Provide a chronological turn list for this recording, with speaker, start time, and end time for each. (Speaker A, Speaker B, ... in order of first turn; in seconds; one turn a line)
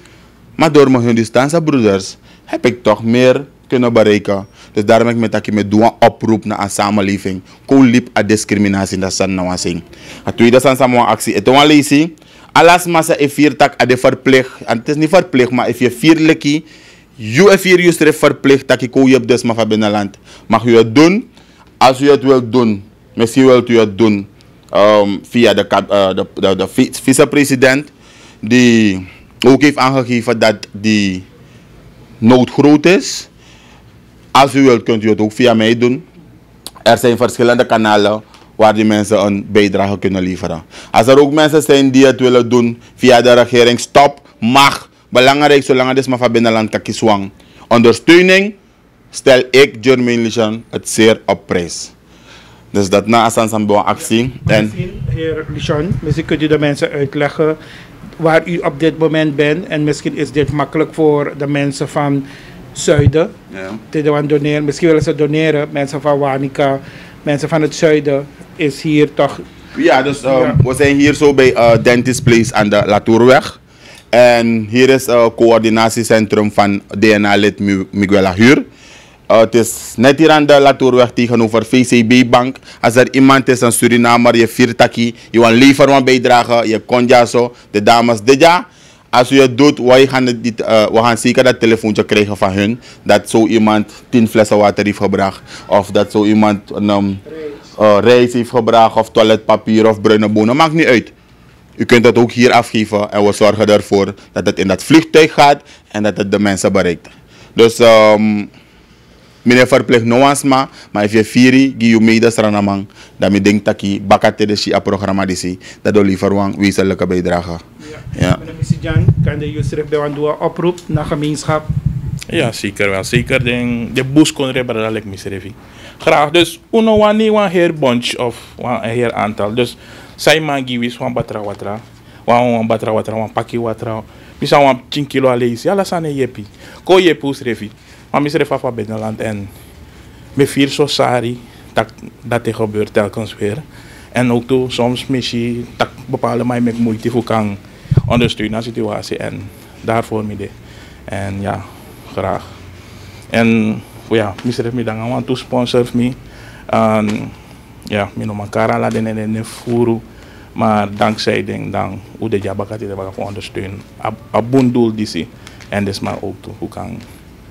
Speaker A: 0.6-16.6
Speaker A: 17.2-21.3
Speaker A: 21.8-27.9
Speaker A: 28.4-31.2
Speaker A: 32.2-33.3
Speaker A: 34.3-36.0
Speaker A: 36.8-48.5
Speaker A: 49.1-51.9
Speaker A: 52.7-54.7
Speaker B: 54.5-57.6
Speaker B: 58.2-63.3
Speaker A: 63.5-63.8
Speaker B: 63.9-69.4
Speaker A: 69.7-73.6
Speaker B: 70.2-70.6
Speaker A: 74.1-78.7
Speaker A: 79.3-101.1
Speaker A: 101.8-108.5
Speaker A: 109.4-118.4
Speaker B: 117.8-121.7
Speaker C: 122.3-139.5
Speaker C: 140.3-150.5
Speaker C: 151.1-152.5
Speaker C: 153.3-156.2
Speaker C: 156.7-157.3
Speaker C: 157.9-160.0
Speaker C: 160.6-167.0